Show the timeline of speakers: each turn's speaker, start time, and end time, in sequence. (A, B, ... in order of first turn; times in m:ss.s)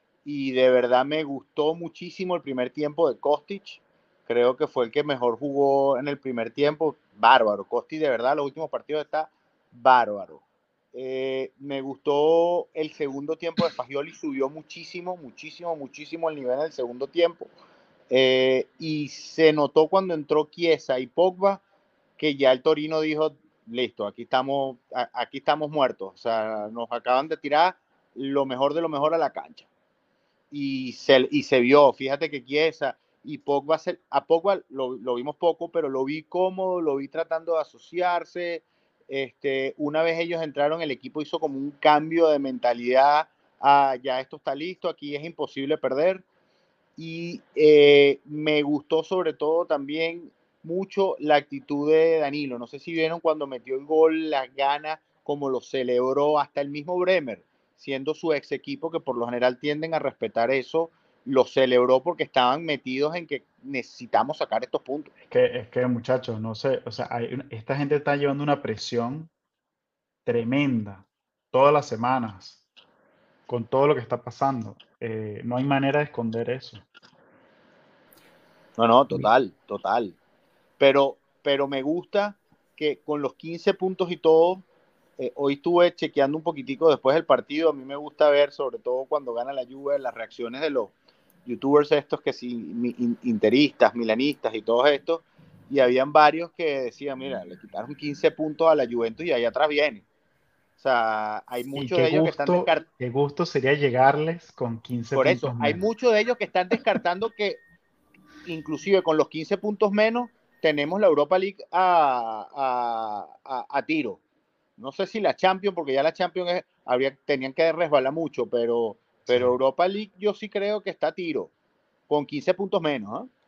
0:00.2-0:10.4 A
0:10.9-0:17.5 A
0:18.1-0:21.6 A
0:22.2-0:29.7 A
0:30.5-0:46.2 A
0:47.0-1:05.1 A
1:05.3-1:09.3 B
1:10.2-1:12.6 B
1:13.5-1:16.8 B
1:18.8-1:20.2 A
1:20.8-1:24.6 A
1:25.2-1:30.9 A
1:31.4-1:40.0 A
1:40.8-1:42.8 A
1:41.7-1:45.8 B
1:45.1-1:47.6 A
1:48.4-1:54.2 A
1:54.8-2:01.5 A
1:59.3-1:59.5 B
2:02.1-2:03.3 A